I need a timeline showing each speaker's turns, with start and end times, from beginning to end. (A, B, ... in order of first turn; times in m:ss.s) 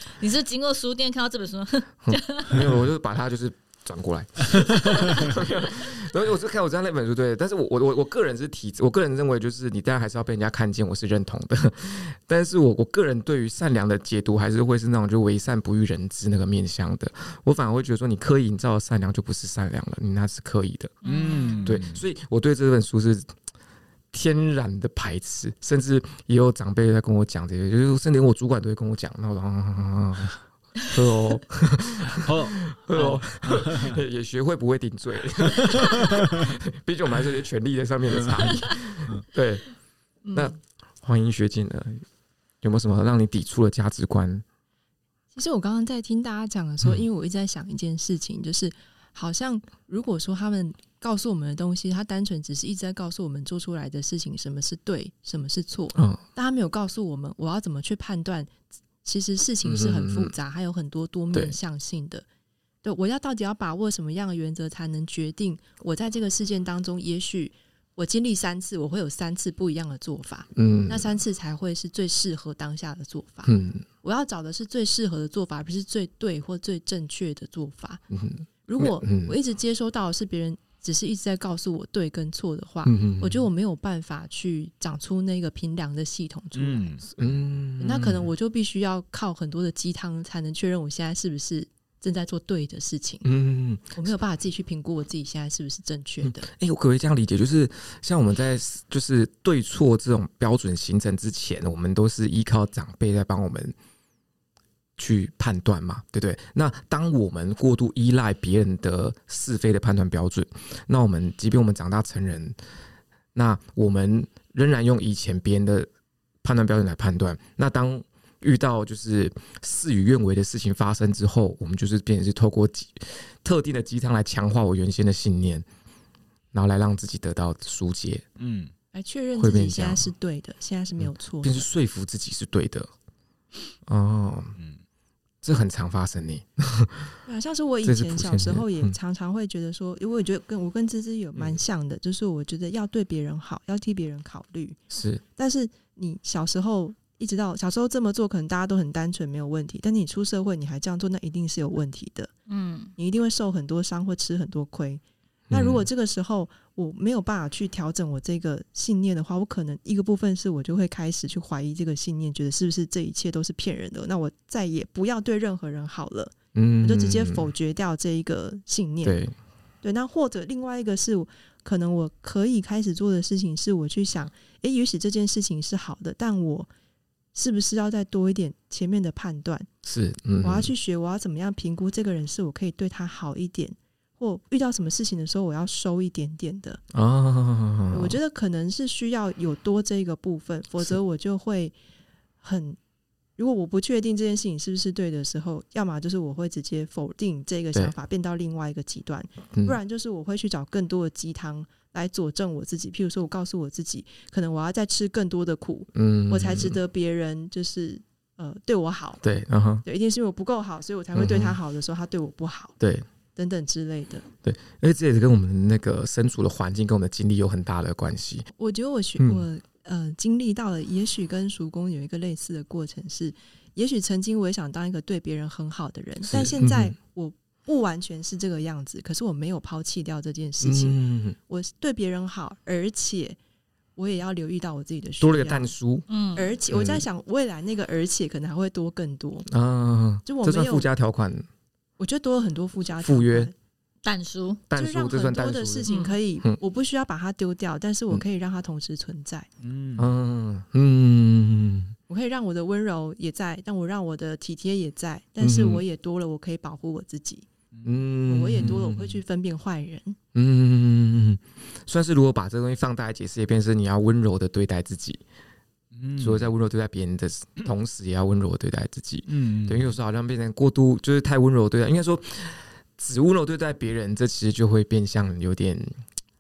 0:00.2-0:02.6 A
0:02.0-0:21.0 B
0:21.0-0:21.8 A
0:21.0-0:22.0 C
0:21.6-0:23.3 B
0:24.1-0:30.3 B
0:30.9-0:39.7 B
0:32.0-0:34.0 C
0:35.6-0:36.5 C
0:38.2-0:38.5 C
0:40.3-0:42.0 B
0:42.6-0:44.4 B
0:45.4-1:02.2 D
0:56.0-0:56.2 B
0:59.6-1:00.3 B
1:02.8-1:18.0 D
1:10.6-1:11.1 B
1:13.5-1:13.8 B
1:18.1-1:19.4 B
1:18.7-1:27.0 D
1:22.8-1:23.5 B
1:26.6-1:27.0 C
1:27.2-1:28.3 B
1:27.8-1:33.3 D
1:33.2-1:34.1 B
1:34.0-1:36.5 D
1:36.2-1:43.8 B
1:45.0-1:52.6 B
1:53.4-1:55.9 B
1:56.4-2:05.7 B
2:06.5-2:08.2 B
2:08.4-2:08.7 C
2:08.9-2:11.7 D
2:09.4-2:10.1 B
2:11.0-2:12.9 B
2:13.9-2:14.6 B
2:15.4-2:17.2 B
2:17.3-2:24.8 D
2:17.8-2:19.0 B
2:24.9-2:25.2 B
2:25.4-2:32.3 D
2:32.5-2:32.9 A
2:33.0-2:49.2 D
2:35.5-2:35.9 B
2:46.6-2:47.5 B
2:49.0-2:49.3 B
2:49.8-2:56.7 D
2:57.4-2:59.7 D
2:59.8-3:00.7 B
3:00.4-3:06.8 D
3:06.9-3:08.2 B
3:07.9-3:11.8 D
3:12.4-3:12.8 D
3:13.4-3:29.2 D
3:26.0-3:26.8 B
3:29.2-3:29.8 B
3:29.8-3:32.8 D
3:31.1-3:31.6 B
3:32.8-3:33.1 B
3:33.4-3:34.2 D
3:34.4-3:38.5 B
3:38.6-3:53.4 D
3:39.2-3:39.4 B
3:46.3-3:47.0 B
3:50.6-3:51.4 B
3:54.0-3:55.7 D
3:55.2-3:56.0 B
3:56.1-3:56.5 A
3:56.4-3:59.5 D
3:56.7-3:57.0 B
3:59.5-4:01.5 B
4:00.2-4:00.9 D
4:02.0-4:03.5 D
4:03.0-4:03.5 B
4:04.0-4:04.6 A
4:04.7-4:05.9 B
4:04.7-4:09.5 D
4:05.9-4:06.2 A
4:09.6-4:10.1 C
4:10.0-4:12.0 B
4:12.1-4:17.5 D
4:15.4-4:15.8 B
4:17.8-4:19.2 B
4:18.3-4:20.2 D
4:20.4-4:25.2 B
4:25.9-4:26.5 C
4:26.2-4:36.0 B
4:29.3-4:29.9 C